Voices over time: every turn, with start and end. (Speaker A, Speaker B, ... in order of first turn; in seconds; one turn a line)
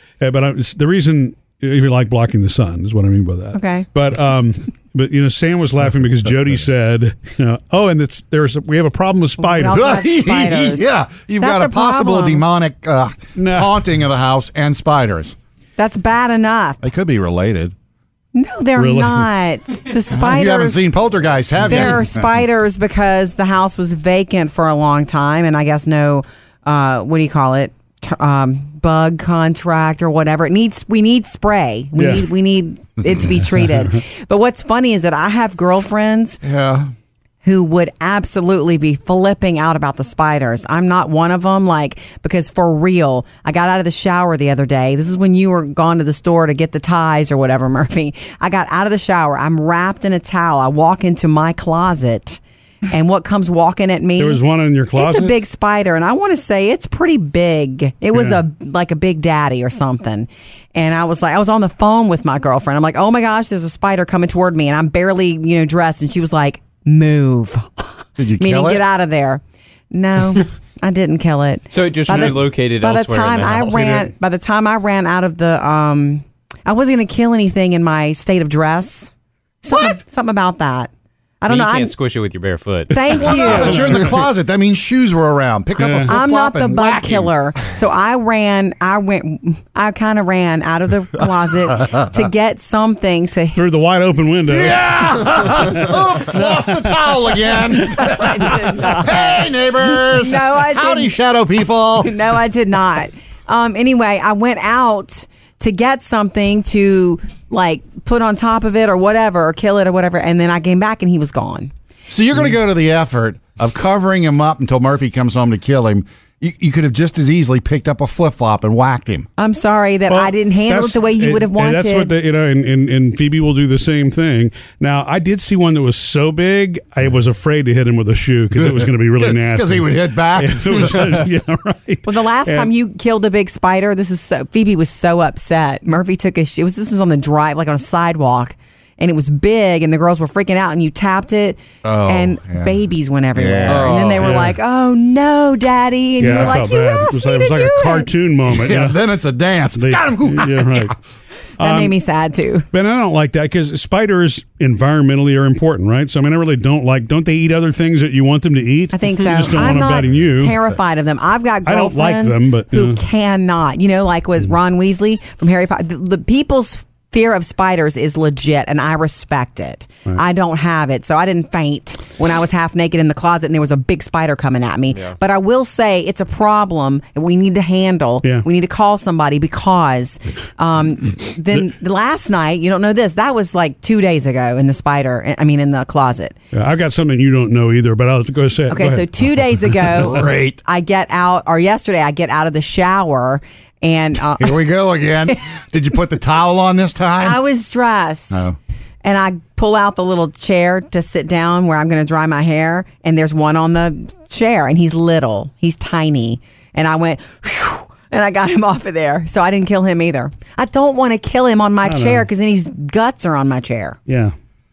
Speaker A: 0.2-9.8
Speaker B: 3.5-3.9
Speaker B: 9.4-12.4
Speaker C: 9.7-15.3
Speaker A: 13.3-13.7
Speaker B: 15.8-16.8
Speaker C: 16.8-17.7
Speaker B: 18.3-20.8
Speaker A: 18.8-19.2
Speaker C: 20.1-22.2
Speaker B: 21.6-36.4
Speaker A: 32.0-32.3
Speaker C: 36.4-36.9
Speaker B: 37.4-54.4
Speaker A: 54.2-55.3
Speaker B: 54.9-67.8
Speaker A: 58.1-58.4
Speaker C: 68.2-68.8
Speaker B: 68.4-79.1
Speaker D: 71.7-74.1
Speaker B: 79.6-80.9
Speaker B: 81.4-81.9
Speaker D: 81.5-83.8
Speaker B: 82.9-83.9
Speaker C: 83.2-87.3
Speaker A: 83.4-84.1
Speaker A: 85.8-86.2
Speaker B: 86.0-93.6
Speaker A: 93.5-95.8
Speaker C: 94.5-102.1
Speaker B: 97.8-101.1
Speaker B: 102.0-111.7
Speaker C: 112.1-119.3
Speaker B: 119.4-122.1
Speaker A: 120.1-132.7
Speaker C: 128.6-131.2
Speaker B: 132.0-148.1
Speaker C: 141.8-142.7
Speaker C: 143.3-144.0
Speaker D: 143.7-144.4
Speaker A: 144.0-144.6
Speaker A: 146.2-149.0
Speaker C: 146.3-146.6
Speaker C: 148.5-151.0
Speaker A: 149.7-150.9
Speaker A: 151.6-151.9
Speaker B: 151.6-152.7
Speaker A: 152.7-160.6
Speaker B: 158.9-186.3
Speaker A: 161.6-163.0
Speaker A: 186.5-189.7
Speaker B: 188.7-194.6
Speaker C: 190.0-190.6
Speaker C: 194.4-197.4
Speaker B: 197.2-198.4
Speaker C: 198.3-198.6
Speaker B: 199.0-214.0
Speaker A: 211.8-212.2
Speaker A: 214.1-214.3